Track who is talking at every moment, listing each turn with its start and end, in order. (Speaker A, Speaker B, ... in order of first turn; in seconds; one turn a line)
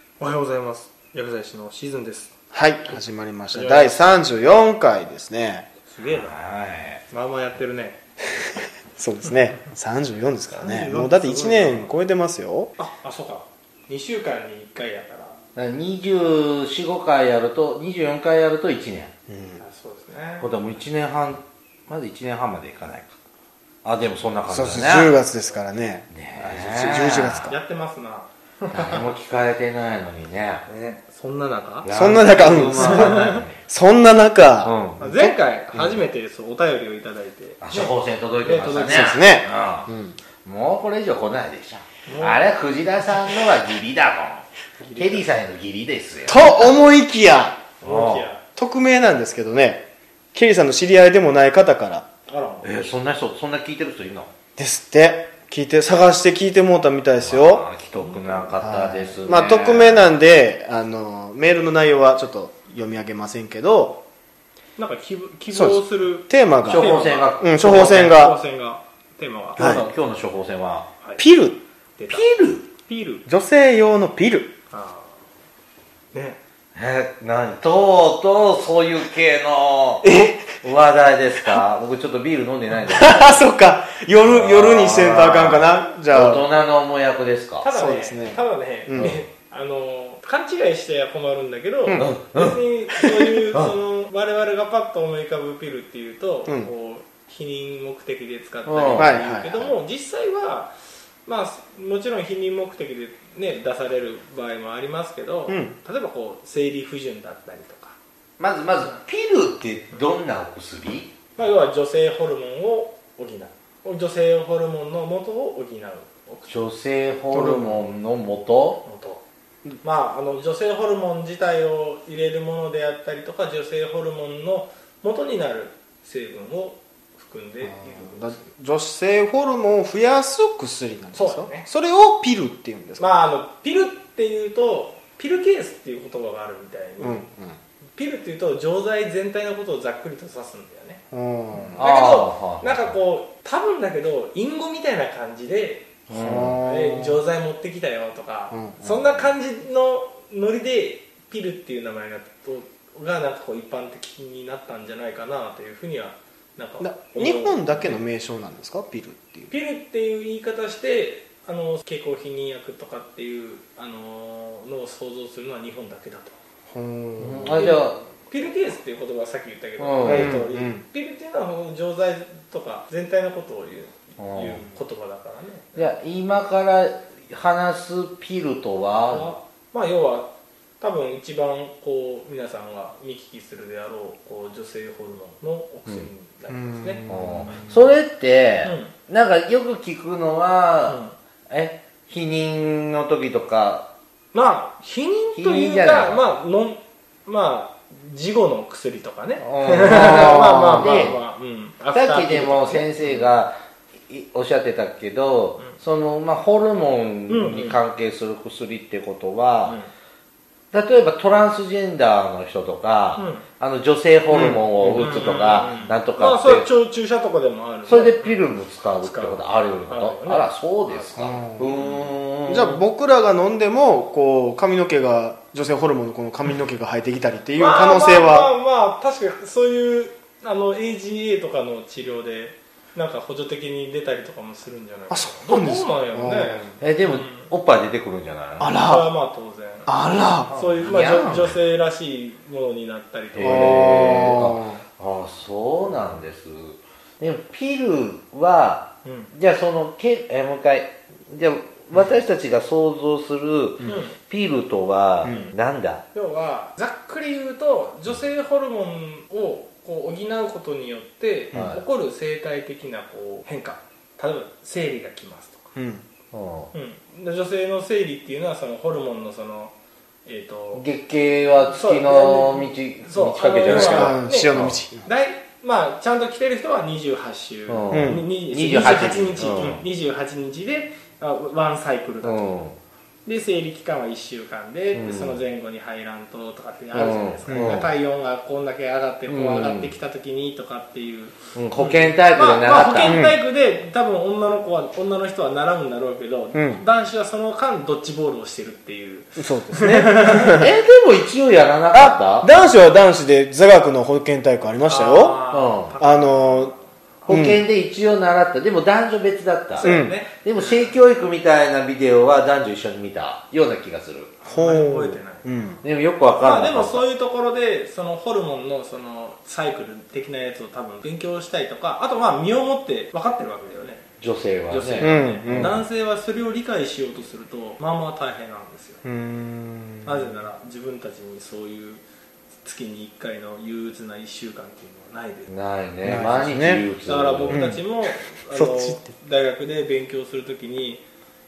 Speaker A: 0.2-2.3
Speaker B: 2.5-5.7
Speaker A: 3.5-4.3
Speaker A: 5.9-6.3
Speaker C: 6.1-7.0
Speaker A: 7.1-8.0
Speaker B: 8.9-12.7
Speaker A: 10.5-12.0
Speaker A: 12.8-15.4
Speaker C: 15.6-19.1
Speaker B: 19.3-19.6
Speaker A: 19.6-20.5
Speaker C: 20.4-23.1
Speaker C: 23.8-25.2
Speaker B: 24.5-27.6
Speaker C: 26.1-27.5
Speaker A: 27.5-29.1
Speaker C: 28.7-31.0
Speaker A: 31.1-31.9
Speaker C: 31.8-33.6
Speaker B: 31.9-35.4
Speaker A: 32.5-33.5
Speaker C: 34.6-35.0
Speaker A: 35.0-39.2
Speaker C: 37.6-46.7
Speaker B: 38.8-40.2
Speaker A: 42.1-42.5
Speaker A: 44.8-45.3
Speaker B: 46.3-47.7
Speaker A: 47.8-48.4
Speaker C: 47.8-48.3
Speaker B: 48.6-52.1
Speaker A: 52.3-53.0
Speaker C: 52.6-54.3
Speaker B: 54.6-57.7
Speaker C: 57.2-60.1
Speaker A: 57.9-58.6
Speaker B: 58.6-64.0
Speaker A: 64.8-69.8
Speaker B: 65.5-68.4
Speaker C: 66.6-68.2
Speaker C: 69.6-70.9
Speaker B: 69.6-69.9
Speaker B: 71.2-71.6
Speaker A: 72.0-73.3
Speaker C: 72.1-72.7
Speaker B: 73.3-74.5
Speaker A: 74.7-75.2
Speaker A: 76.1-76.4
Speaker C: 76.8-80.1
Speaker B: 80.0-80.6
Speaker C: 80.6-83.5
Speaker B: 82.9-86.5
Speaker C: 84.2-87.7
Speaker A: 87.6-100.7
Speaker B: 87.7-89.2
Speaker C: 92.0-92.6
Speaker B: 96.5-96.7
Speaker C: 98.7-99.2
Speaker B: 99.0-99.7
Speaker A: 101.2-108.0
Speaker B: 105.5-105.8
Speaker C: 108.4-111.1
Speaker A: 111.4-116.6
Speaker C: 116.5-118.8
Speaker B: 117.3-117.8
Speaker A: 118.8-119.2
Speaker A: 119.8-128.5
Speaker B: 127.6-133.0
Speaker A: 131.1-131.7
Speaker A: 133.0-137.3
Speaker B: 137.0-137.6
Speaker A: 137.9-141.0
Speaker B: 141.1-141.8
Speaker C: 141.7-142.9
Speaker A: 141.8-158.0
Speaker C: 146.1-146.6
Speaker B: 146.1-147.2
Speaker B: 148.5-149.1
Speaker B: 156.8-159.5
Speaker A: 159.5-166.4
Speaker B: 166.7-167.8
Speaker C: 167.2-168.0
Speaker A: 167.5-176.0
Speaker C: 169.8-170.4
Speaker B: 170.0-170.8
Speaker C: 174.2-174.6
Speaker C: 175.8-179.4
Speaker A: 179.1-187.0
Speaker B: 186.5-188.0
Speaker C: 187.1-193.9
Speaker A: 188.6-188.9
Speaker A: 190.9-191.1
Speaker A: 194.3-203.2
Speaker C: 195.3-196.3
Speaker C: 199.4-201.2
Speaker B: 199.9-201.1
Speaker C: 201.9-203.6
Speaker C: 204.1-209.8
Speaker A: 207.3-207.8
Speaker C: 210.7-216.7
Speaker A: 213.2-213.5
Speaker A: 214.3-222.1
Speaker B: 214.8-215.3
Speaker C: 217.9-222.8
Speaker B: 221.2-221.7
Speaker B: 222.4-228.5
Speaker A: 227.6-237.5
Speaker B: 235.1-236.8
Speaker C: 236.8-238.7
Speaker B: 238.6-239.2
Speaker A: 238.8-239.9
Speaker B: 239.9-240.5
Speaker C: 240.4-241.6
Speaker A: 240.5-244.4
Speaker C: 243.3-256.0
Speaker B: 243.4-244.8
Speaker A: 249.0-249.3
Speaker A: 253.8-254.2
Speaker B: 255.2-255.5
Speaker A: 255.3-255.5
Speaker A: 256.1-265.7
Speaker C: 261.5-261.8
Speaker B: 265.8-266.0
Speaker C: 266.3-266.7
Speaker A: 266.7-269.7
Speaker A: 270.3-270.9
Speaker C: 270.8-274.8
Speaker A: 271.6-282.5
Speaker B: 273.7-275.1
Speaker C: 277.7-279.8
Speaker B: 277.9-279.6
Speaker C: 282.2-282.8
Speaker A: 283.3-300.5
Speaker C: 284.9-285.4
Speaker C: 286.9-287.9
Speaker B: 287.5-287.9
Speaker C: 289.3-289.9
Speaker C: 291.6-293.2
Speaker B: 293.1-293.4
Speaker B: 296.5-296.8
Speaker B: 299.4-300.7
Speaker C: 300.6-302.5
Speaker B: 301.9-305.4
Speaker A: 304.9-307.3
Speaker C: 305.5-305.9
Speaker B: 306.0-306.7
Speaker C: 307.3-314.4
Speaker B: 307.3-307.6
Speaker A: 309.8-311.0
Speaker B: 309.8-310.1
Speaker A: 314.4-315.5
Speaker B: 314.5-315.8
Speaker C: 315.8-317.0
Speaker A: 316.4-324.1
Speaker C: 324.2-325.9
Speaker A: 324.7-329.0
Speaker B: 325.0-325.8
Speaker B: 329.0-330.4
Speaker A: 330.1-332.0
Speaker A: 332.6-335.5
Speaker C: 335.5-337.6
Speaker B: 336.0-336.9
Speaker A: 337.0-341.0
Speaker B: 337.5-337.8
Speaker B: 338.5-339.1